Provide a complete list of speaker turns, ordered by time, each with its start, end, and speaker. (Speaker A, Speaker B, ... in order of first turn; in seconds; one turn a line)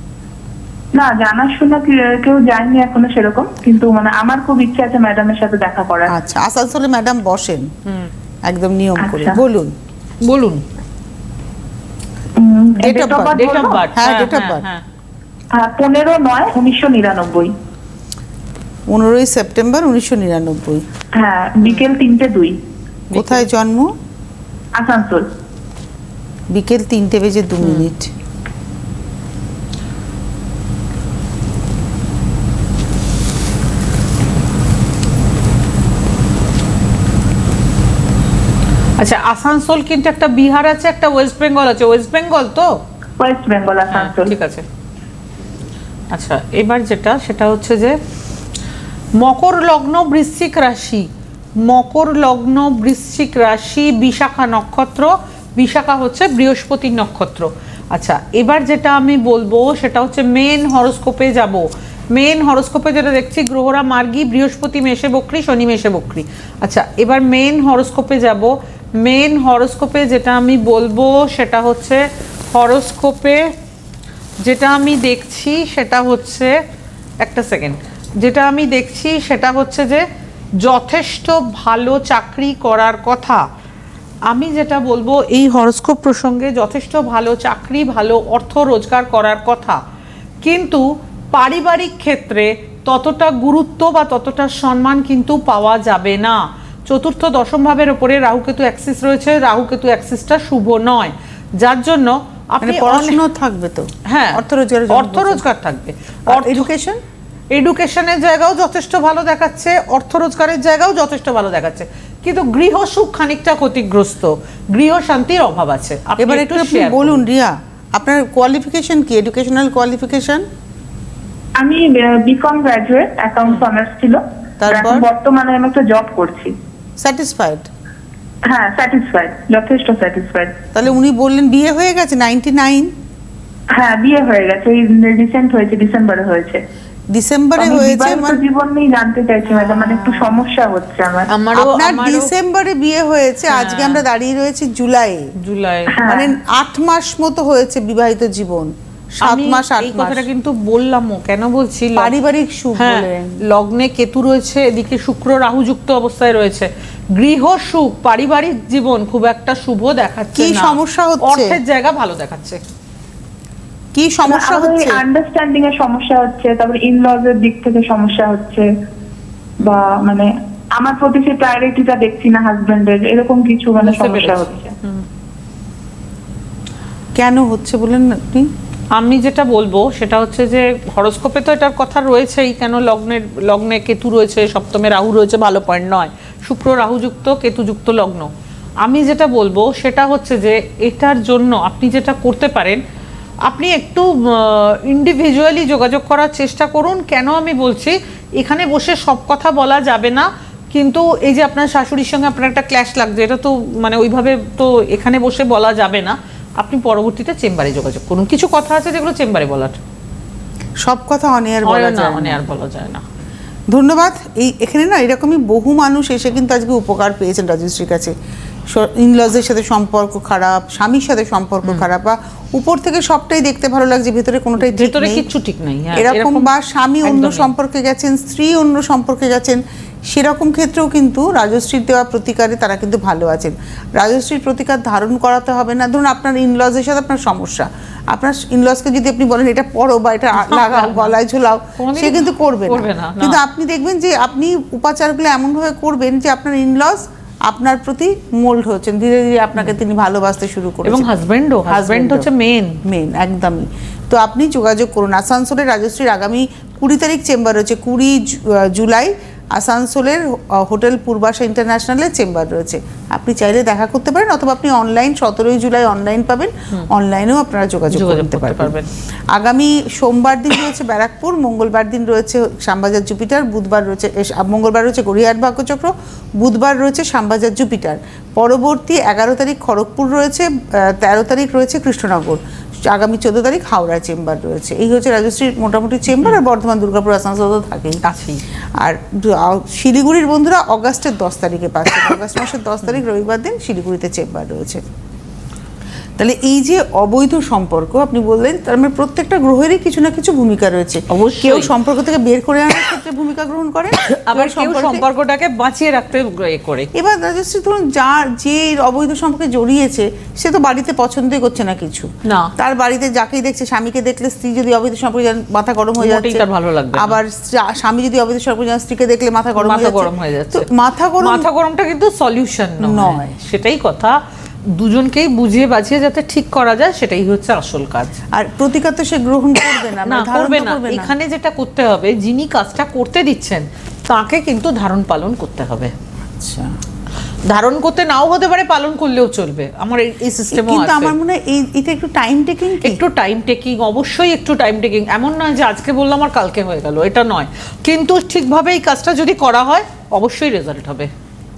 Speaker A: 0.9-6.1
Speaker B: 6.1-7.7
Speaker B: 8.4-9.7
Speaker A: 9.0-9.4
Speaker C: 10.2-10.6
Speaker A: 12.4-13.8
Speaker B: 12.8-14.7
Speaker C: 12.9-14.8
Speaker A: 15.5-17.5
Speaker B: 18.9-20.9
Speaker A: 21.2-22.6
Speaker C: 23.1-23.4
Speaker B: 23.1-23.9
Speaker A: 24.8-25.3
Speaker B: 26.5-28.1
Speaker C: 27.6-27.9
Speaker C: 39.0-42.8
Speaker A: 43.2-44.3
Speaker C: 43.9-44.6
Speaker C: 46.1-48.0
Speaker C: 49.1-51.1
Speaker C: 51.6-73.5
Speaker C: 74.4-76.6
Speaker C: 77.2-80.0
Speaker C: 80.6-83.4
Speaker C: 84.3-89.8
Speaker C: 90.4-103.2
Speaker B: 102.6-105.4
Speaker C: 104.1-106.7
Speaker B: 106.3-107.0
Speaker C: 107.5-117.2
Speaker B: 116.2-120.4
Speaker A: 121.6-126.5
Speaker B: 124.6-125.1
Speaker B: 127.0-127.7
Speaker A: 128.5-130.6
Speaker B: 130.7-132.9
Speaker A: 133.7-136.6
Speaker B: 137.1-138.4
Speaker A: 137.6-141.3
Speaker C: 139.7-140.0
Speaker C: 141.3-142.3
Speaker B: 141.5-145.3
Speaker C: 143.5-144.0
Speaker C: 145.4-146.0
Speaker A: 145.9-146.3
Speaker B: 146.0-150.3
Speaker C: 149.2-152.1
Speaker B: 151.9-153.4
Speaker C: 152.8-162.6
Speaker B: 160.3-161.6
Speaker B: 163.9-165.0
Speaker A: 164.3-168.7
Speaker A: 169.6-174.8
Speaker C: 173.8-175.0
Speaker B: 177.2-178.5
Speaker C: 178.9-188.3
Speaker C: 188.8-192.8
Speaker C: 193.5-209.8
Speaker B: 210.8-212.4
Speaker C: 211.6-213.0
Speaker B: 213.7-218.1
Speaker B: 218.7-225.2
Speaker C: 224.6-226.5
Speaker B: 225.9-251.1
Speaker C: 227.0-227.5
Speaker C: 240.3-241.2
Speaker C: 241.8-243.4
Speaker C: 250.8-252.8
Speaker B: 251.7-252.3
Speaker B: 252.8-268.7
Speaker C: 267.9-268.9
Speaker B: 269.3-288.0
Speaker C: 288.0-288.4
Speaker B: 288.8-294.8
Speaker B: 296.2-305.1
Speaker C: 301.1-301.7
Speaker C: 304.1-306.9
Speaker B: 306.9-321.5
Speaker C: 312.2-312.5
Speaker C: 316.0-317.2
Speaker C: 319.6-320.7
Speaker C: 321.2-324.2
Speaker B: 322.8-323.3
Speaker C: 324.7-328.2
Speaker B: 328.3-331.1
Speaker C: 330.0-335.9
Speaker B: 336.3-336.8
Speaker C: 337.4-341.1
Speaker B: 340.5-343.0
Speaker C: 342.8-351.1